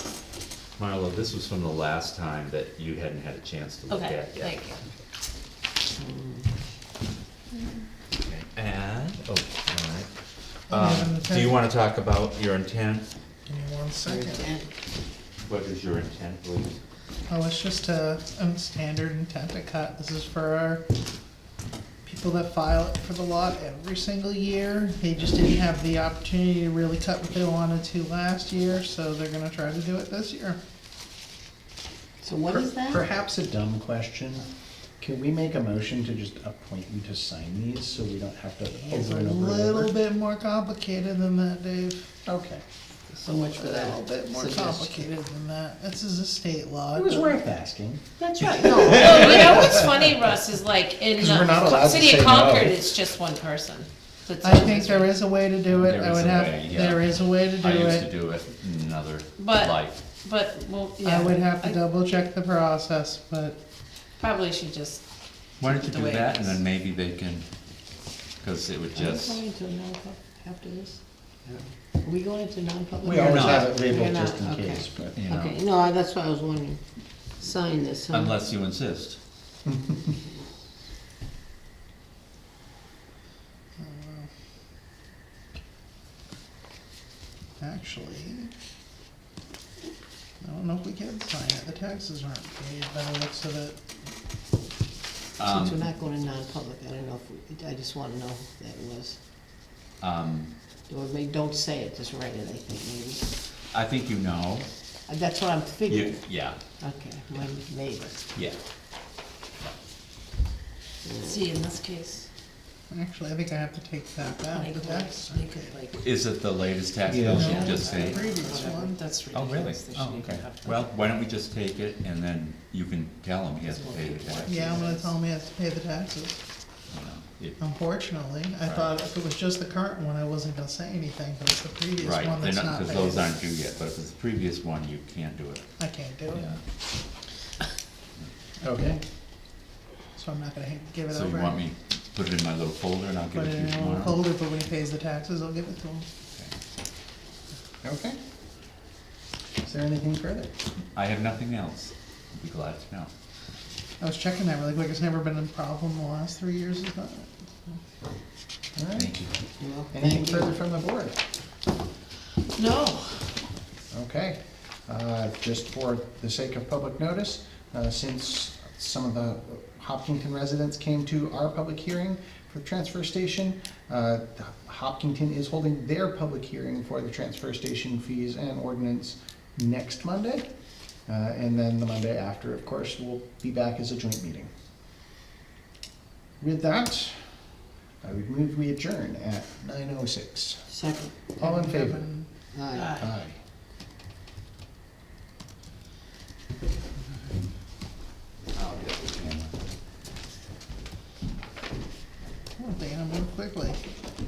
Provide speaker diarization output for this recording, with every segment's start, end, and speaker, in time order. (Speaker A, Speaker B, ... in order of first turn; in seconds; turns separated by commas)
Speaker A: 0.8-4.5, Speaker B: 3.9-4.8, Speaker C: 6.0-6.5, Speaker A: 8.2-10.1, Speaker A: 10.7-13.1, Speaker D: 10.7-11.6, Speaker D: 13.5-14.5, Speaker C: 14.0-14.7, Speaker A: 15.4-16.8, Speaker D: 17.3-20.8, Speaker D: 22.0-30.6, Speaker C: 32.2-33.1, Speaker E: 32.5-34.5, Speaker E: 35.0-39.9, Speaker D: 38.8-42.1, Speaker E: 42.2-42.6, Speaker C: 43.1-45.1, Speaker D: 43.2-47.4, Speaker E: 46.9-50.1, Speaker C: 48.2-49.8, Speaker B: 48.9-55.2, Speaker E: 51.1-52.9, Speaker D: 54.4-58.1, Speaker A: 55.6-60.0, Speaker B: 59.4-61.8, Speaker D: 61.0-63.6, Speaker B: 64.2-65.0, Speaker B: 65.6-66.6, Speaker A: 65.6-67.5, Speaker A: 68.4-69.4, Speaker C: 68.9-71.0, Speaker C: 72.0-76.8, Speaker E: 73.0-75.2, Speaker A: 73.1-73.7, Speaker A: 75.1-75.6, Speaker C: 77.4-78.4, Speaker A: 78.1-79.2, Speaker D: 83.8-84.3, Speaker D: 87.6-88.5, Speaker D: 90.4-93.8, Speaker A: 95.4-95.8, Speaker C: 95.4-99.2, Speaker A: 100.0-100.5, Speaker C: 100.9-103.3, Speaker A: 103.7-104.7, Speaker C: 105.1-106.3, Speaker A: 105.9-106.6, Speaker C: 106.8-108.2, Speaker C: 111.0-111.5, Speaker B: 111.2-112.2, Speaker D: 112.9-115.7, Speaker B: 114.5-116.0, Speaker A: 115.9-118.3, Speaker E: 117.0-117.6, Speaker D: 117.3-119.0, Speaker C: 117.5-117.7, Speaker B: 117.7-120.8, Speaker A: 119.3-124.6, Speaker B: 124.2-124.5, Speaker C: 124.3-125.0, Speaker D: 124.5-126.4, Speaker A: 126.9-127.6, Speaker D: 127.6-133.3, Speaker A: 128.6-128.9, Speaker A: 132.0-135.7, Speaker D: 135.8-136.6, Speaker A: 136.3-136.6, Speaker E: 138.6-139.0, Speaker D: 140.1-141.6, Speaker A: 141.1-144.2, Speaker D: 143.3-146.1, Speaker E: 147.8-148.2, Speaker E: 149.6-150.5, Speaker A: 150.9-153.1, Speaker D: 154.0-157.7, Speaker E: 158.8-159.2, Speaker A: 158.9-159.3, Speaker C: 159.6-160.6, Speaker E: 159.9-161.2, Speaker B: 162.6-163.3, Speaker E: 163.9-180.4, Speaker E: 181.1-184.5, Speaker E: 186.4-187.3, Speaker E: 188.0-190.6, Speaker C: 190.7-191.1, Speaker E: 191.4-192.1, Speaker D: 191.4-192.3, Speaker C: 192.5-193.0, Speaker B: 192.8-193.0, Speaker E: 192.9-193.4, Speaker A: 198.5-199.5, Speaker D: 202.6-203.8